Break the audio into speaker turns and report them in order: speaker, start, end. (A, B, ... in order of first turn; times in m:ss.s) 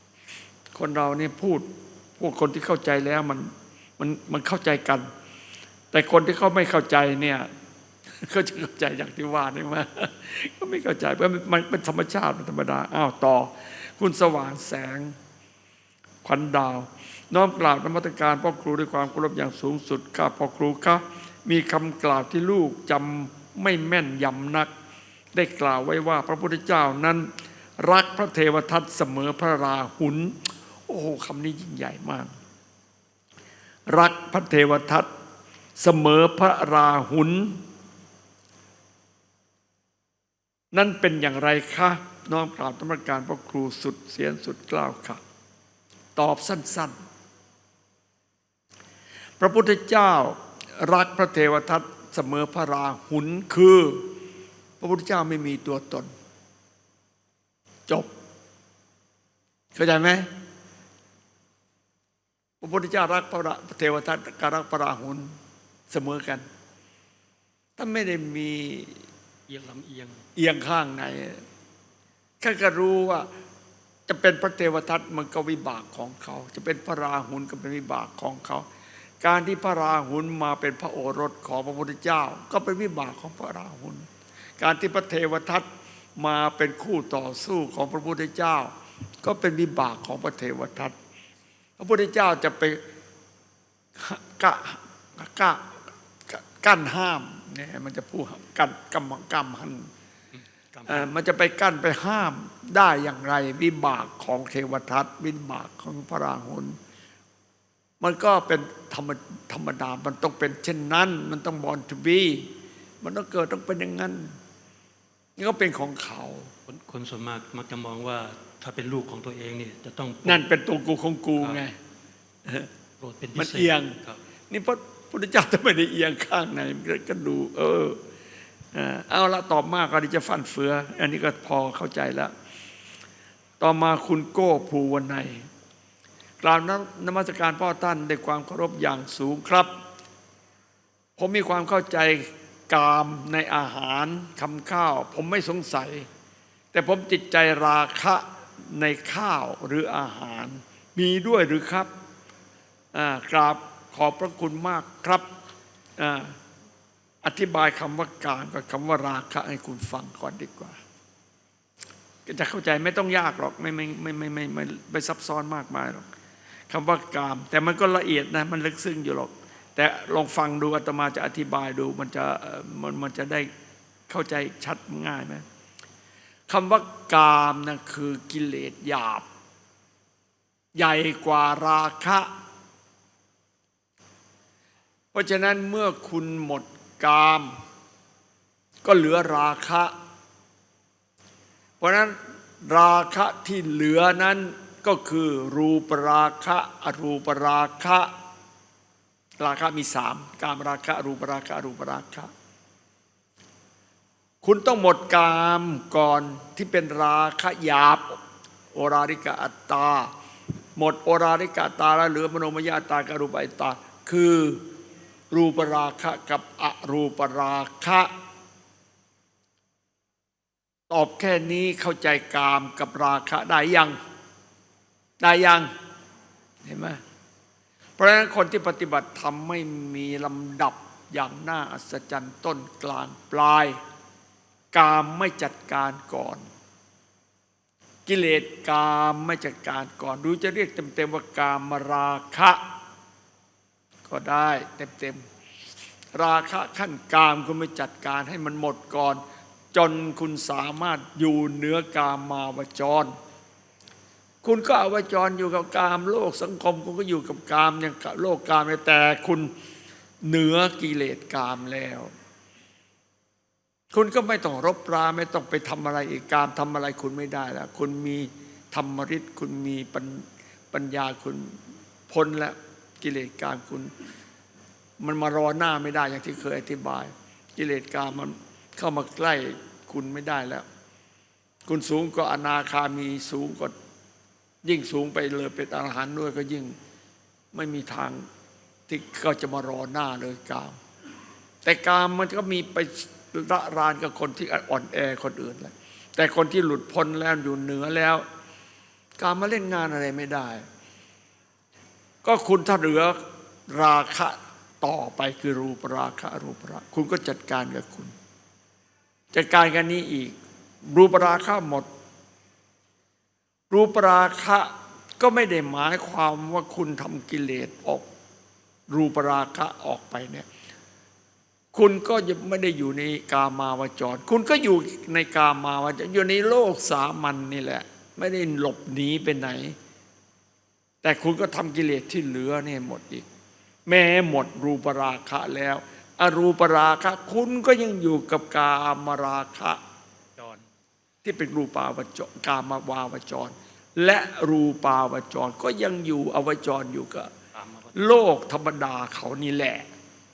0:00.7-0:05.1 A
0:05.9-0:07.5 A
0:08.2-0:15.1 A
0:16.2-0:24.7 A
0:25.3-0:32.3 A
0:33.9-0:35.1 A
0:35.8-0:37.6 A
0:40.7-0:45.2 A
0:46.2-0:46.9 A
0:49.4-0:54.1 A
0:54.8-0:56.1 A
0:59.7-1:00.3 A
1:02.6-1:05.3 A
1:05.9-1:06.4 A
1:07.8-1:09.0 A
1:09.5-1:10.2 B
1:10.4-1:11.4 A
1:12.4-1:13.3 A
1:14.1-1:18.6 A
1:19.2-1:24.0 A
1:24.6-1:30.9 A
1:31.8-1:32.8 A
1:34.0-1:35.6 A
1:36.3-1:39.9 A
1:40.3-1:41.1 B
1:40.9-1:46.8 A
1:48.0-1:54.3 A
1:55.4-1:56.5 A
1:56.7-2:00.4 B
2:00.2-2:01.7 A
2:01.4-2:01.6 B
2:03.0-2:04.2 B
2:03.4-2:04.0 A
2:04.5-2:08.0 A
2:08.7-2:12.3 A
2:13.6-2:15.4 A
2:16.4-2:19.7 A
2:21.2-2:26.1 A
2:26.7-2:31.9 A
2:32.9-2:35.2 A
2:36.0-2:36.3 A
2:37.2-2:40.8 A
2:42.2-2:46.1 A
2:46.7-2:53.5 A
2:54.1-2:55.4 A
2:56.5-2:59.2 A
3:00.8-3:02.3 A
3:05.1-3:07.6 A
3:08.8-3:09.9 A
3:11.8-3:18.1 A
3:19.4-3:22.3 A
3:24.4-3:28.2 A
3:28.7-3:30.1 A
3:30.8-3:34.6 A
3:35.3-3:38.1 A
3:40.9-3:44.0 A
3:45.2-3:45.7 A
3:46.6-3:47.0 A
3:48.0-3:53.8 A
3:54.7-3:56.4 A
3:58.0-4:02.6 A
4:04.0-4:05.2 A
4:06.1-4:09.2 A
4:09.7-4:13.1 A
4:14.4-4:19.5 A
4:20.2-4:22.1 A
4:23.9-4:31.6 A
4:32.1-4:33.9 A
4:35.0-4:40.6 A
4:41.7-4:43.7 A
4:44.6-4:46.7 A
4:47.5-4:48.3 A
4:48.9-4:50.8 A
4:51.6-4:58.2 A
4:59.2-5:00.6 A
5:02.2-5:03.2 A
5:03.7-5:08.1 A
5:09.3-5:10.4 A
5:10.9-5:11.9 A
5:13.7-5:18.1 A
5:18.9-5:20.5 A
5:21.7-5:29.8 A
5:31.0-5:33.2 A
5:33.9-5:39.8 A
5:40.4-5:40.7 B
5:41.2-5:47.3 A
5:47.5-5:48.0 B
5:47.9-5:49.9 A